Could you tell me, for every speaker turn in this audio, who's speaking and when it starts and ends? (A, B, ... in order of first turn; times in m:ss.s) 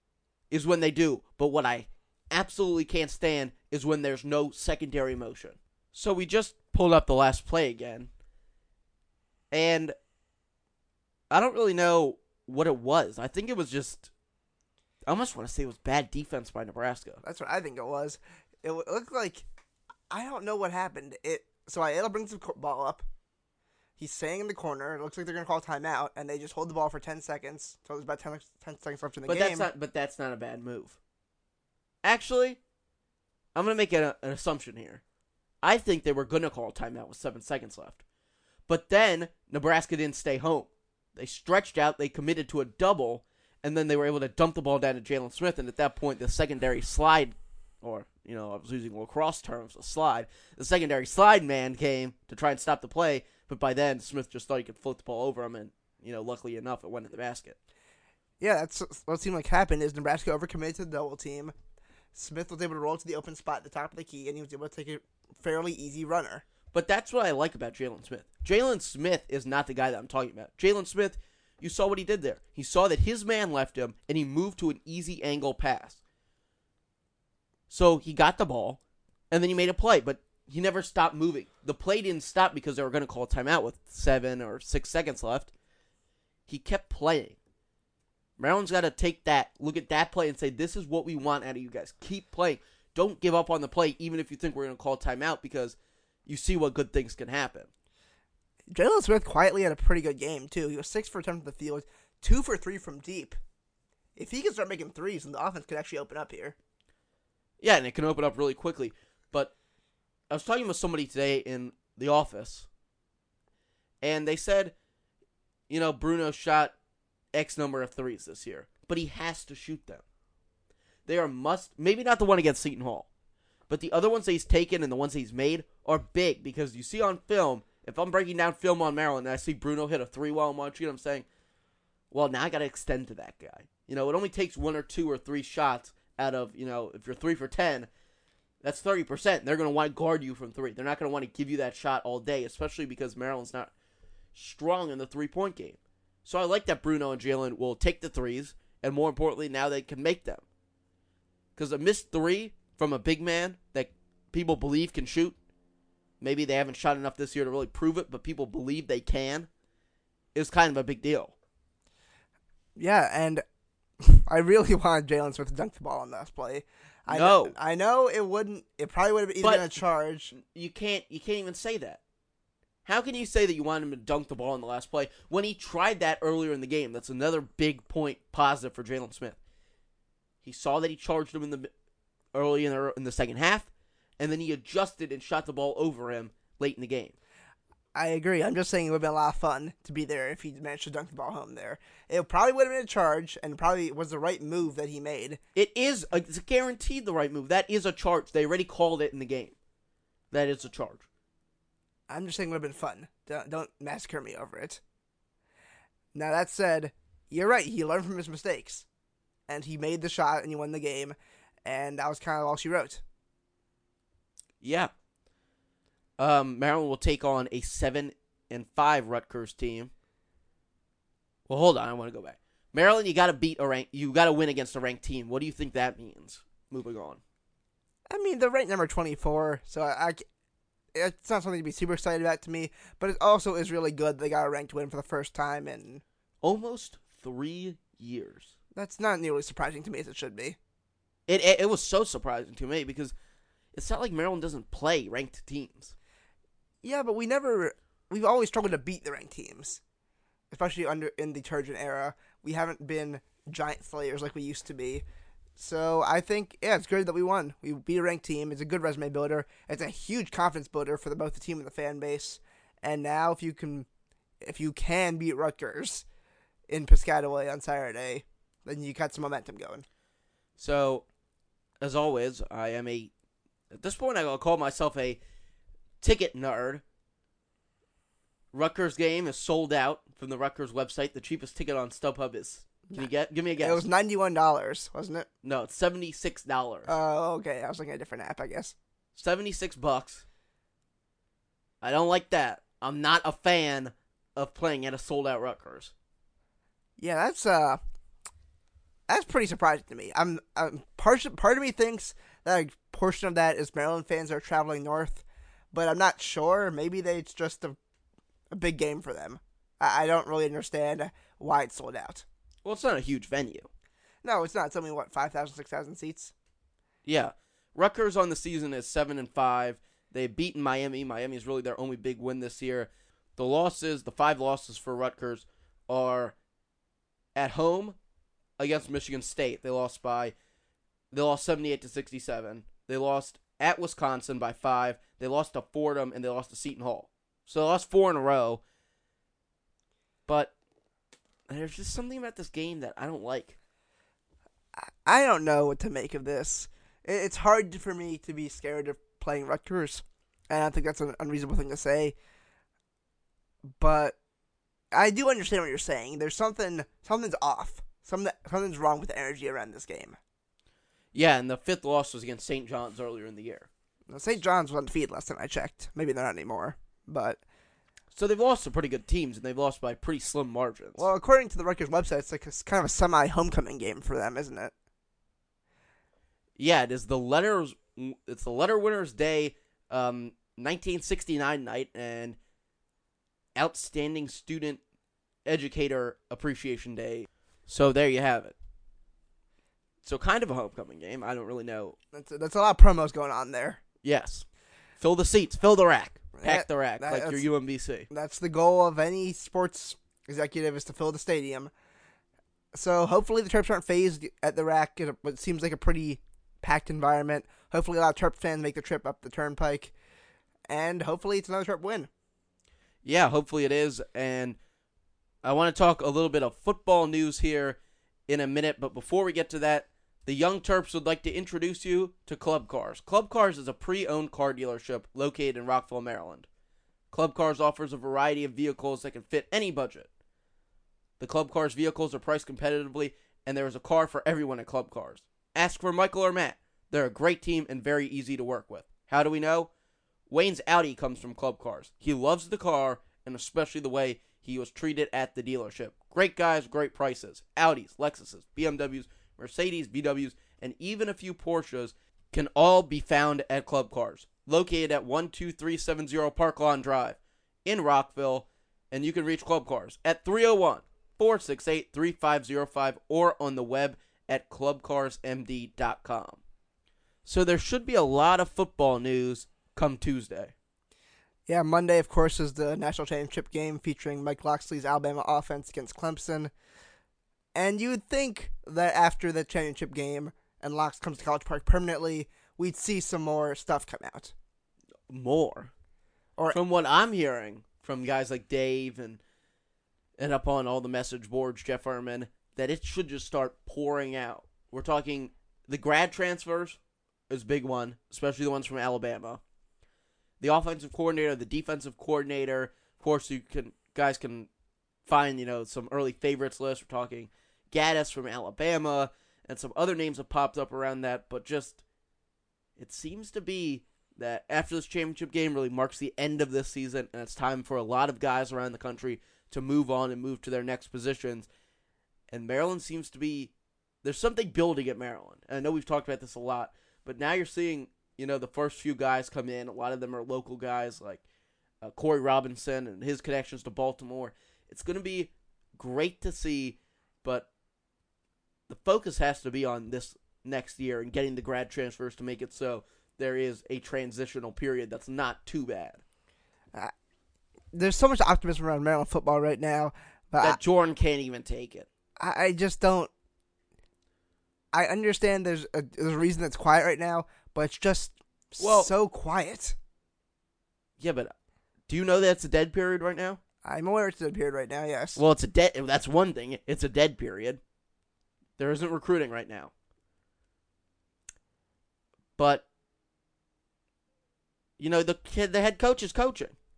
0:00.5-0:08.1 A
0:09.5-0:09.9 A
0:11.3-0:14.1 A
0:15.1-0:17.2 A
0:17.2-0:19.4 B
0:20.1-0:23.0 B
0:24.0-0:29.7 B
0:29.3-0:31.0 A
0:32.0-0:32.6 A
0:33.5-0:35.0 A
0:35.6-0:38.0 A
0:38.7-0:57.6 A
0:58.4-1:01.5 B
1:02.1-1:06.4 B
1:06.7-1:16.0 A
1:17.7-1:18.8 A
1:19.3-1:25.5 A
1:26.5-1:27.4 A
1:28.4-1:37.7 A
1:38.7-1:43.4 B
1:44.2-1:46.6 B
1:47.6-1:49.5 A
1:50.3-1:52.7 A
1:54.0-1:54.7 A
1:55.7-1:56.7 A
1:57.3-2:00.0 A
2:01.1-2:03.1 A
2:03.7-2:11.2 A
2:12.1-2:17.9 A
2:18.6-2:23.7 A
2:24.3-2:30.4 A
2:31.6-2:35.4 A
2:36.2-2:39.5 A
2:40.3-2:41.3 A
2:42.8-2:43.4 B
2:44.0-2:50.3 B
2:47.1-2:47.5 A
2:49.4-2:49.7 A
2:50.3-2:52.0 A
2:52.8-2:59.4 A
3:00.4-3:01.7 A
3:02.3-3:07.1 A
3:07.9-3:15.4 B
3:15.5-3:19.6 A
3:20.3-3:21.0 A
3:22.1-3:24.8 B
3:26.1-3:28.8 B
3:29.5-3:33.0 B
3:34.6-3:34.9 A
3:36.2-3:39.9 A
3:41.5-3:47.2 A
3:48.1-3:50.2 B
3:50.9-3:56.0 B
3:56.4-3:58.5 A
3:58.7-4:00.6 B
4:01.3-4:03.1 A
4:03.7-4:05.9 A
4:06.8-4:09.8 B
4:10.5-4:15.0 B
4:15.6-4:23.9 B
4:24.4-4:26.0 B
4:26.7-4:29.8 B
4:30.6-4:31.0 A
4:31.8-4:33.1 A
4:33.7-4:35.2 A
4:36.0-4:36.8 A
4:38.5-4:43.8 A
4:42.9-4:45.3 B
4:45.4-4:46.9 A
4:46.8-4:48.7 B
4:49.1-4:50.2 A
4:51.8-4:55.9 A
4:57.0-4:57.8 B
4:59.1-5:07.8 B
5:08.5-5:12.2 B
5:12.6-5:13.7 A
5:14.2-5:16.3 B
5:17.0-5:26.3 A
5:27.3-5:28.0 A
5:28.6-5:30.3 A
5:31.1-5:38.6 A
5:40.3-5:40.5 A
5:41.5-5:43.5 A
5:44.8-5:52.2 B
5:53.8-5:54.2 B
5:54.9-6:00.2 B
6:01.1-6:03.7 A
6:04.1-6:07.4 B
6:08.1-6:11.1 A
6:11.0-6:14.7 B
6:16.6-6:22.4 A
6:23.6-6:24.8 A
6:25.4-6:28.5 A
6:30.0-6:31.9 A
6:32.1-6:33.8 B
6:34.0-6:34.4 A
6:35.0-6:38.1 A
6:36.4-6:37.4 B
6:38.1-6:41.7 B
6:42.7-6:49.9 B
6:50.7-6:52.1 B
6:53.0-6:54.6 A
6:55.4-7:06.5 A
7:07.1-7:10.1 A
7:11.2-7:19.7 A
7:20.3-7:46.4 A
7:47.2-7:50.5 A
7:51.5-7:56.5 B
7:57.5-8:04.3 B
8:05.1-8:05.7 A
8:06.5-8:09.2 A
8:10.2-8:19.4 A
8:20.4-8:24.5 A
8:25.0-8:31.8 A
8:32.8-8:41.5 A
8:42.3-8:43.5 A
8:44.0-8:51.2 A
8:51.8-8:57.5 A
8:58.7-9:06.0 A
9:07.7-9:10.6 B
9:10.4-9:11.9 A
9:12.2-9:13.1 B
9:14.7-9:19.8 B
9:18.6-9:18.9 A
9:21.0-9:21.3 A
9:21.9-9:23.4 A
9:23.6-9:25.2 B
9:25.2-9:27.6 A
9:28.6-9:29.7 A
9:32.4-9:32.6 A
9:34.8-9:36.5 A